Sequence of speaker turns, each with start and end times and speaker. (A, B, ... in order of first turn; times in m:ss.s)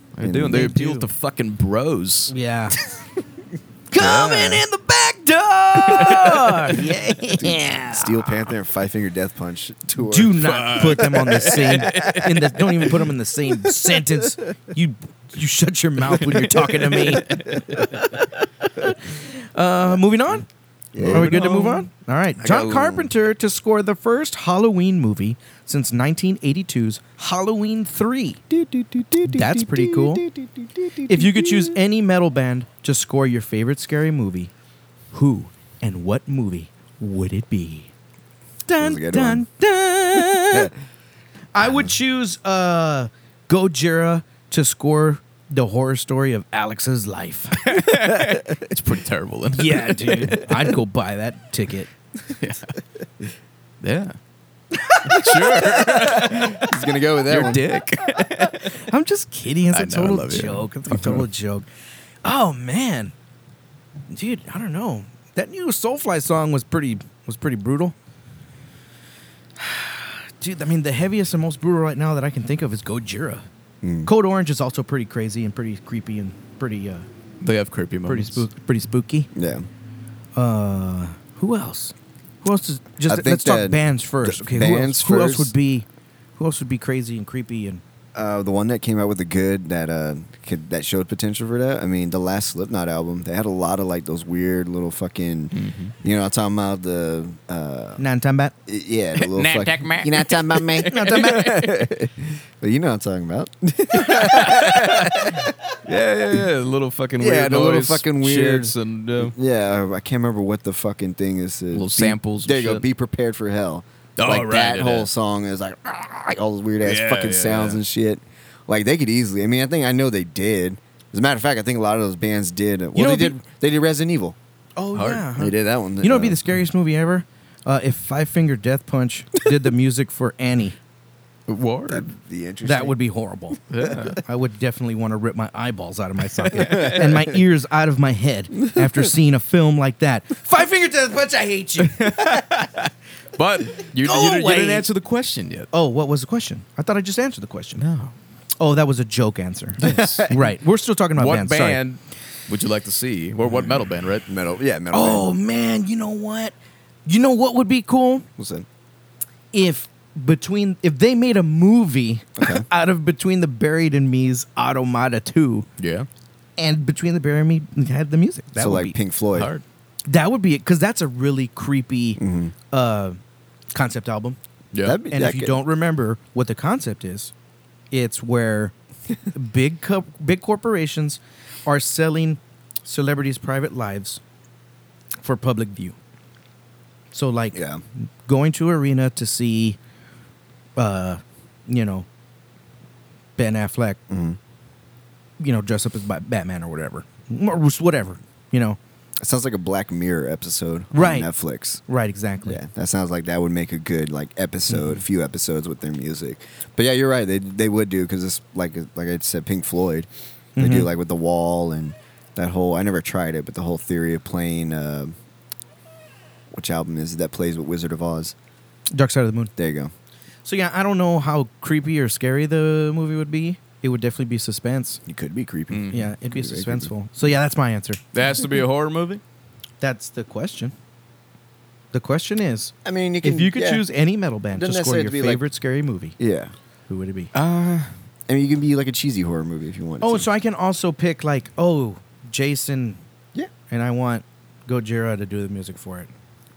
0:00.2-0:02.3 A
0:00.2-0:00.7 B
0:00.5-0:01.1 C
0:02.3-0:02.8 C
0:03.9-0:08.4 C
0:04.0-0:04.6 A
0:05.9-0:06.8 A
0:07.4-0:10.4 B
0:10.0-0:18.1 C
0:10.4-0:12.6 A
0:11.6-0:12.1 B
0:17.1-0:17.8 A
0:18.7-0:20.4 C
0:20.9-0:21.6 B
0:21.0-0:21.8 A
0:21.0-0:28.4 C
0:22.4-0:23.1 B
0:28.5-0:31.8 B
0:29.2-0:30.2 C
0:31.1-0:34.5 C
0:35.1-0:37.9 C
0:38.7-0:40.7 C
0:38.8-0:39.4 B
0:41.5-0:47.8 C
0:47.6-0:50.7 A
0:49.5-0:51.9 C
0:52.3-0:52.7 A
0:53.8-0:54.2 A
0:54.8-0:56.5 C
0:55.0-0:56.7 A
0:55.6-0:57.6 B
0:57.2-0:58.7 A
0:58.4-1:01.7 C
0:59.7-1:01.2 A
1:02.2-1:03.1 C
1:04.1-1:07.9 C
1:09.6-1:13.5 C
1:13.8-1:14.1 B
1:14.0-1:17.1 C
1:17.4-1:18.4 A
1:18.1-1:19.3 C
1:19.3-1:19.7 B
1:20.4-1:25.8 C
1:23.1-1:25.5 B
1:26.4-1:27.8 C
1:28.1-1:38.0 B
1:35.5-1:35.9 A
1:38.0-1:38.5 C
1:38.7-1:45.5 B
1:39.2-1:41.6 A
1:40.9-1:41.6 C
1:43.9-1:49.3 A
1:47.2-2:04.4 B
1:51.7-1:52.8 A
1:54.2-1:55.1 A
1:56.8-1:57.8 A
2:02.9-2:03.4 C
2:04.8-2:10.8 C
2:04.9-2:05.3 A
2:05.4-2:06.4 B
2:11.5-2:12.1 A
2:11.9-2:13.0 B
2:12.6-2:22.3 C
2:13.7-2:14.2 A
2:16.5-2:17.1 A
2:16.6-2:17.2 B
2:18.7-2:19.0 B
2:21.8-2:25.7 A
2:24.0-2:24.9 C
2:25.7-2:27.8 C
2:27.8-2:28.1 A
2:28.6-2:31.8 C
2:29.8-2:30.3 A
2:29.8-2:30.4 B
2:31.2-2:34.3 A
2:34.3-2:35.3 B
2:34.9-2:36.6 C
2:37.0-2:38.3 C
2:38.4-2:38.6 B
2:39.5-2:45.7 C
2:42.4-2:42.6 B
2:45.8-2:46.1 A
2:46.6-2:49.0 C
2:48.6-2:49.5 B
2:49.3-2:49.6 A
2:50.1-2:52.2 C
2:52.2-2:52.5 B
2:52.7-2:53.2 C
2:53.7-2:54.4 C
2:54.7-2:55.0 A
2:54.8-2:55.6 B
2:55.1-2:57.3 C
2:57.9-2:58.7 C
2:59.3-3:04.2 C
3:05.2-3:06.0 C
3:07.1-3:09.8 C
3:07.5-3:07.8 B
3:10.8-3:12.1 C
3:13.4-3:14.0 C
3:14.1-3:14.4 B
3:15.4-3:18.8 C
3:19.2-3:21.8 B
3:20.9-3:21.3 C
3:21.9-3:22.6 C
3:22.4-3:35.2 B
3:24.7-3:25.0 C
3:30.6-3:30.9 C
3:36.5-3:38.3 B
3:38.9-3:39.5 C
3:39.6-3:39.9 B
3:40.4-3:45.0 C
3:45.0-3:46.9 B
3:45.7-3:46.1 A
3:45.9-3:48.0 C
3:48.1-3:49.2 A
3:49.8-3:50.7 C
3:51.9-3:56.2 C
3:52.8-3:53.8 B
3:54.5-3:55.4 B
3:56.2-3:56.5 B
3:56.9-3:57.3 C
3:57.3-3:57.9 A
3:58.3-4:00.3 B
4:00.0-4:03.0 C
4:03.7-4:06.1 C